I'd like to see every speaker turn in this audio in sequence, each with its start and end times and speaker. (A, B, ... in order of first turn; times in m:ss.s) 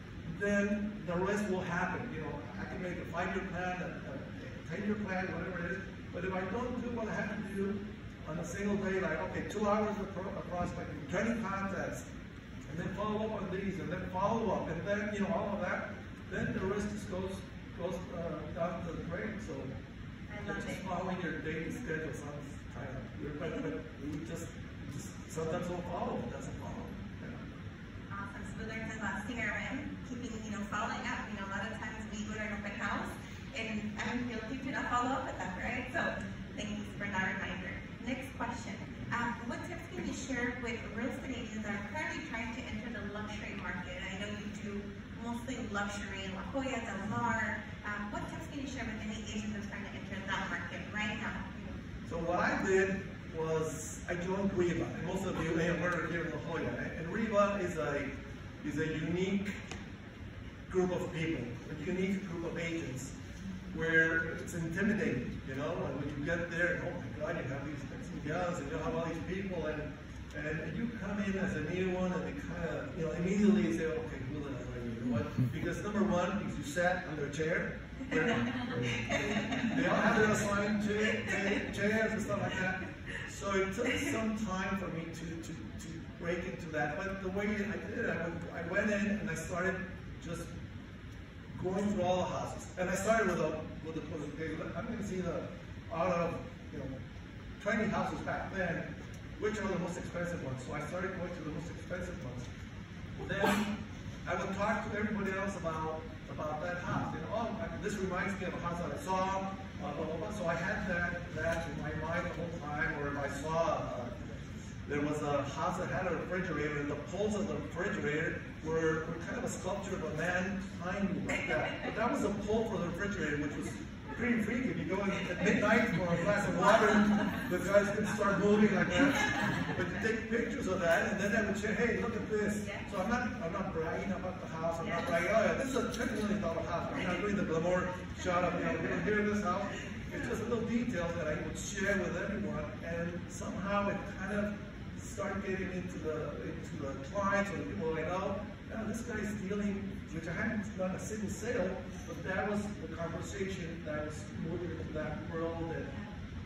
0:00.2-0:12.0 A
0:12.7-0:19.7 A
0:20.3-0:20.9 B
0:20.4-0:27.4 A
0:28.1-0:51.7 B
0:52.0-0:59.5 A
1:00.7-1:03.1 A
1:03.7-1:30.5 A
1:18.1-1:19.8 B
1:31.5-1:36.9 A
1:37.6-1:38.8 A
1:39.4-1:42.4 A
1:43.2-1:43.7 A
1:44.2-1:54.2 A
1:54.8-2:35.9 A
2:12.6-2:12.8 B
2:14.8-2:15.1 B